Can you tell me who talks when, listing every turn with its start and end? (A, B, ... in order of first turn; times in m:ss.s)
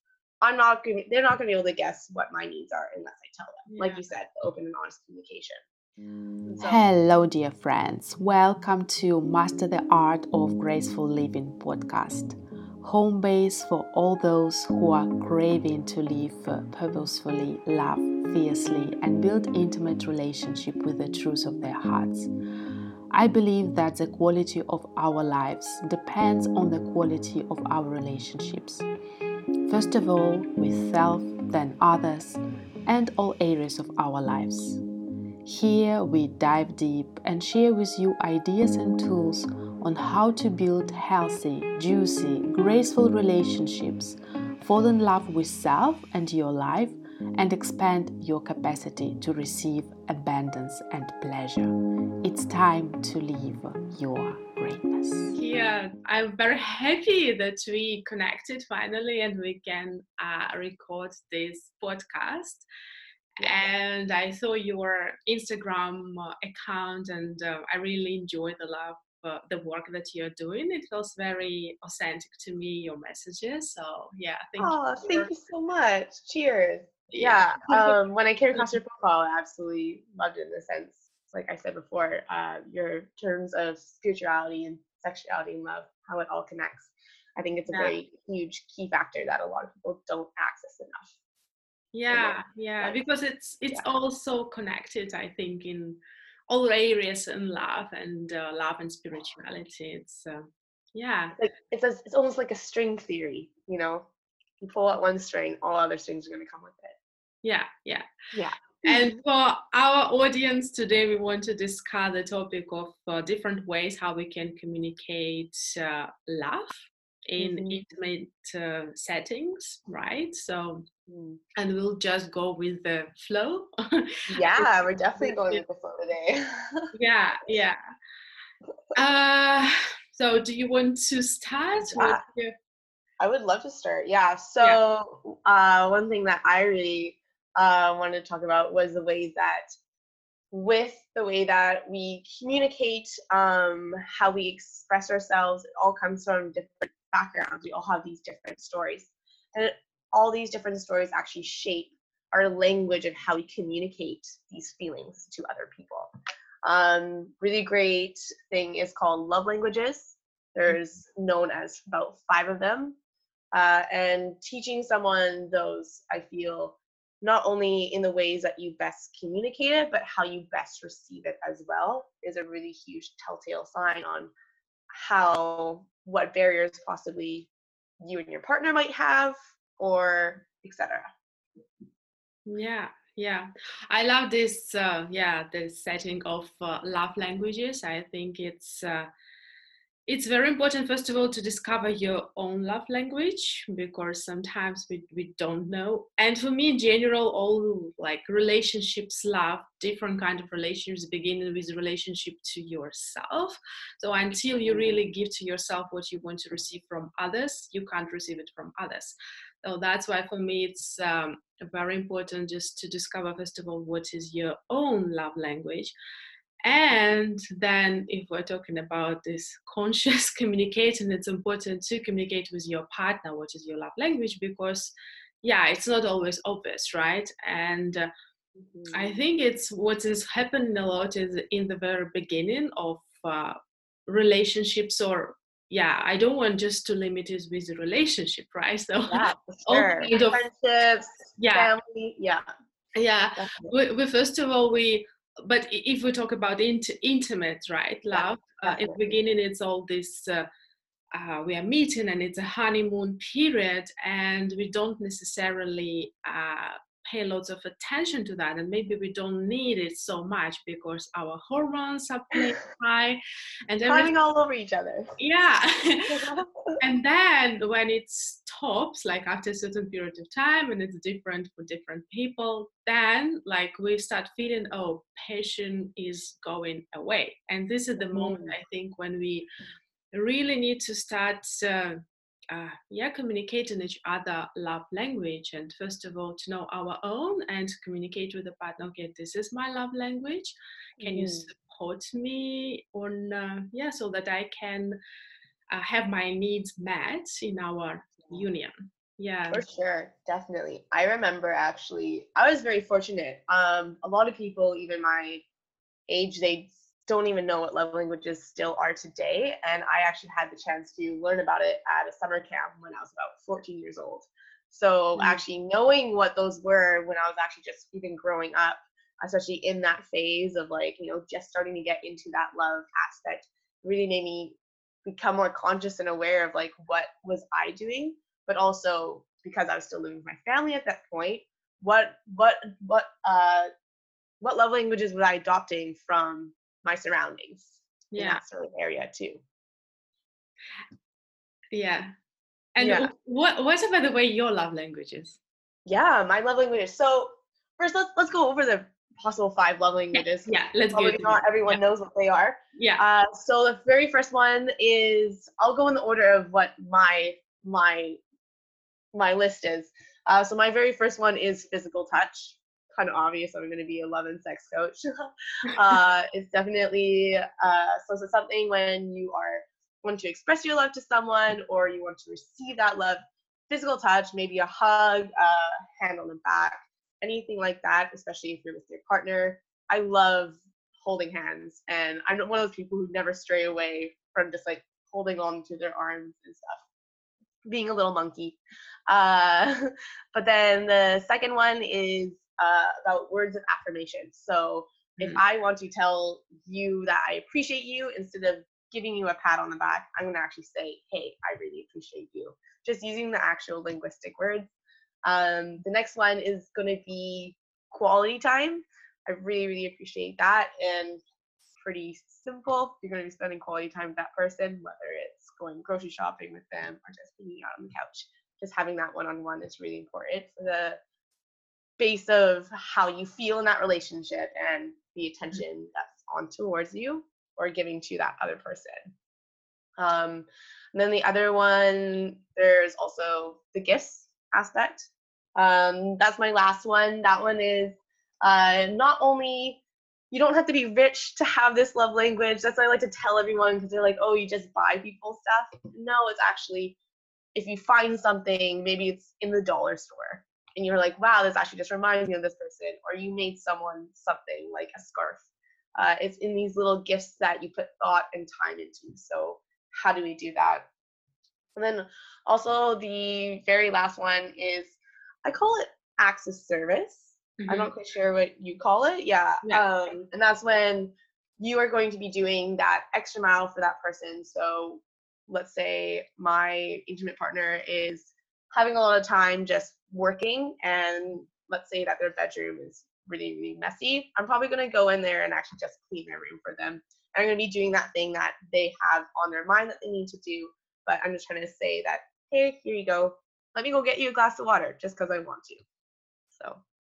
0:00.4-0:05.6 A
0:03.7-0:04.0 B
0:06.5-0:06.8 A
0:06.6-0:22.3 C
0:23.1-0:28.8 C
0:29.7-0:34.8 C
0:35.4-0:51.7 C
0:52.2-0:55.3 C
0:55.3-1:02.6 B
1:03.4-1:15.3 B
1:14.6-1:31.1 A
1:17.1-1:18.0 B
1:27.7-1:28.0 B
1:31.9-1:41.4 B
1:32.1-1:33.0 A
1:41.3-1:44.0 A
1:44.6-1:47.0 A
1:47.4-1:48.1 B
1:48.3-1:49.1 A
1:48.8-2:00.9 B
1:57.4-1:57.9 A
2:01.1-2:01.4 A
2:01.6-2:05.6 B
2:04.3-2:06.9 A
2:06.9-2:07.8 B
2:08.9-2:12.5 B
2:11.8-2:12.2 A
2:13.2-2:19.7 A
2:20.5-2:36.1 A
2:36.6-2:43.0 A
2:43.5-2:54.3 A
2:54.9-2:57.5 A
2:58.0-3:01.1 A
3:02.4-3:09.1 B
3:10.0-3:35.9 B
3:36.6-3:44.9 B
3:45.4-3:48.1 B
3:48.6-3:49.2 A
3:48.9-4:00.4 B
3:59.1-4:02.5 A
4:01.4-4:01.7 B
4:03.0-4:10.5 B
4:03.4-4:03.7 A
4:08.1-4:09.2 A
4:11.1-4:24.1 B
4:23.9-4:25.1 A
4:25.2-4:39.5 B
4:26.1-4:26.8 A
4:38.1-4:38.6 A
4:40.1-4:55.0 B
4:51.0-4:51.5 A
4:55.7-4:59.6 B
4:59.5-5:05.4 A
5:06.1-5:33.7 A
5:15.1-5:15.4 B
5:34.4-5:39.4 A
5:38.1-5:38.4 B
5:41.7-5:42.1 B
5:42.7-5:45.4 B
5:42.8-5:43.1 A
5:45.8-5:58.2 A
5:50.1-5:51.8 B
5:52.8-5:53.0 B
5:59.1-6:26.8 A
6:27.6-6:44.7 A
6:45.2-6:51.2 A
6:51.8-7:01.0 A
7:02.0-7:09.1 A
7:10.0-7:19.8 A
7:20.3-7:27.0 A
7:27.5-7:35.4 A
7:36.0-7:40.9 A
7:41.8-8:15.8 A
7:47.6-7:47.9 B
8:16.5-8:16.8 A